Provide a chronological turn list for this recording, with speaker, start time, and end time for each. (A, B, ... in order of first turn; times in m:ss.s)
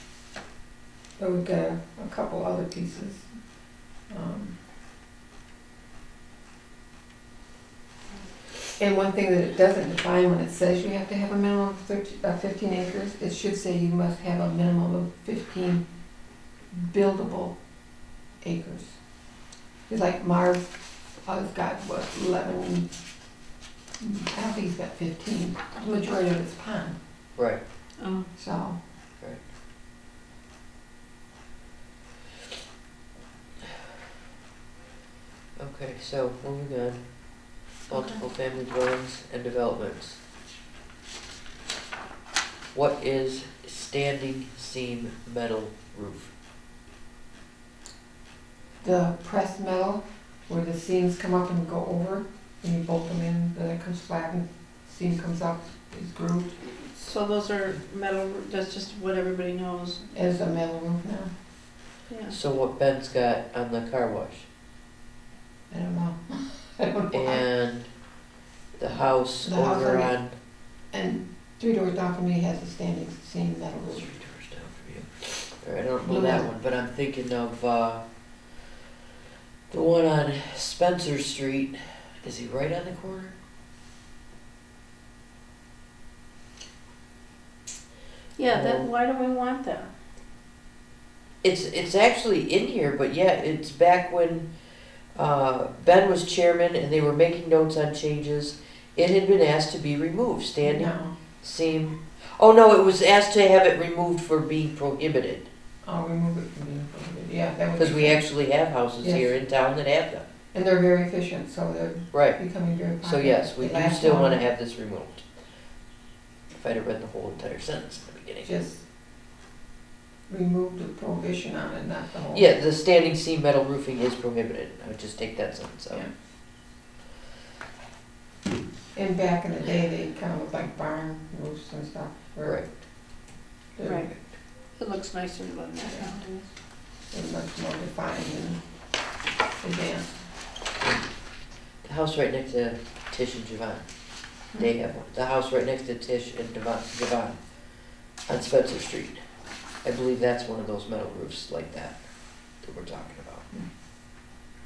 0:01.2-0:03.2 A
0:04.1-0:04.6 A
0:08.8-0:15.8 A
0:16.7-0:17.6 A
0:18.4-0:19.0 A
0:19.9-0:20.7 A
0:21.2-0:22.9 A
0:24.0-0:27.0 A
0:28.0-0:28.3 B
0:28.4-0:28.8 A
0:35.6-0:37.2 C
0:37.9-0:40.2 C
0:37.9-0:38.2 B
0:42.7-0:46.3 C
0:48.8-0:56.6 A
0:56.9-1:00.0 B
1:00.1-1:01.3 A
1:02.1-1:02.4 B
1:02.3-1:04.5 C
1:05.7-1:07.4 A
1:07.1-1:07.9 C
1:08.8-1:10.4 C
1:09.4-1:10.1 A
1:10.9-1:14.1 A
1:13.9-1:18.0 C
1:16.0-1:16.4 A
1:19.7-1:23.3 C
1:28.4-1:29.9 B
1:28.5-1:28.9 C
1:31.4-1:34.5 C
1:35.2-1:45.5 C
1:40.6-1:41.1 A
1:45.8-1:48.2 A
1:47.8-1:50.2 C
1:49.0-1:49.3 A
1:50.5-1:54.4 A
1:52.1-1:52.4 C
1:53.0-1:55.2 C
1:56.5-1:58.5 C
1:58.4-1:58.8 A
2:00.3-2:02.5 A
2:02.3-2:06.0 C
2:08.9-2:12.6 A
2:12.4-2:12.7 C
2:13.8-2:14.2 A
2:13.8-2:14.2 B
2:14.8-2:16.4 B
2:15.8-2:16.4 A
2:17.1-2:18.6 A
2:19.6-2:20.2 A
2:20.8-2:21.1 C
2:21.8-2:23.8 C
2:24.5-2:27.4 C
2:28.3-2:29.2 C
2:29.8-2:32.0 C
2:32.6-2:33.4 C